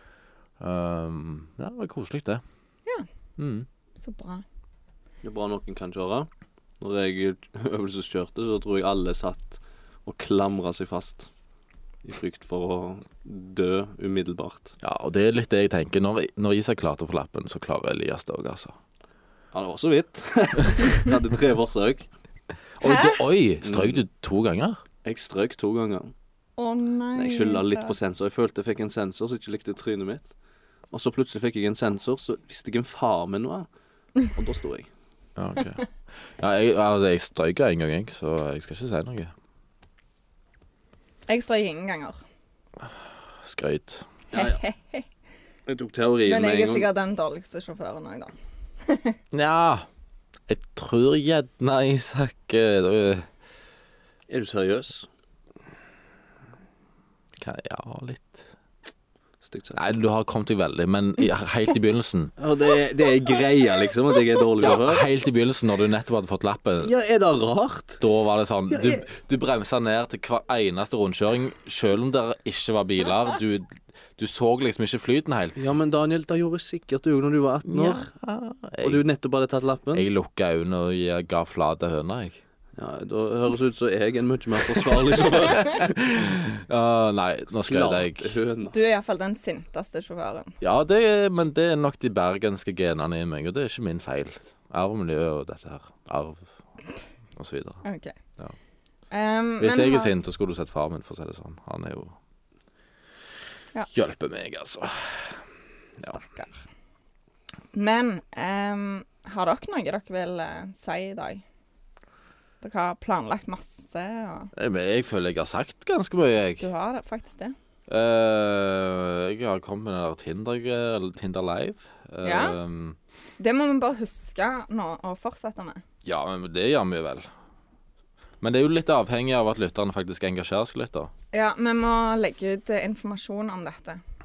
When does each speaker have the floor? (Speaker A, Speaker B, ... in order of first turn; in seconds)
Speaker A: 0.6-2.4, 3.4-3.7, 14.8-18.8, 22.8-24.8, 35.4-39.3, 43.4-44.1, 49.3-49.9, 50.5-53.3, 57.4-58.5, 59.8-62.3, 64.6-66.9, 68.0-75.7, 77.7-79.0, 79.9-82.4, 85.6-88.4, 90.6-96.5, 97.4-97.8, 99.6-102.1, 103.9-105.4, 114.6-116.7, 117.9-123.0, 126.0-127.3, 128.4-131.1
Speaker B: 4.0-4.4, 22.8-23.2, 26.6-28.0, 41.3-42.2, 44.3-45.1, 46.2-48.4, 48.9-49.2, 88.7-90.5, 97.8-98.2, 99.1-100.1, 106.0-106.6, 107.7-111.4, 112.6-114.5, 116.6-117.6, 122.2-122.6, 123.4-125.8, 131.3-134.0
Speaker C: 5.2-6.3, 6.8-11.3, 12.0-14.8, 19.5-22.1, 23.6-24.0, 25.0-26.1, 27.1-30.3, 30.9-33.7, 34.3-34.9, 44.3-44.6, 45.7-46.9, 54.3-55.1, 59.4-59.8, 62.4-65.1, 66.8-68.0, 68.7-69.0, 75.6-78.1, 78.8-80.1, 82.8-86.0, 87.7-88.8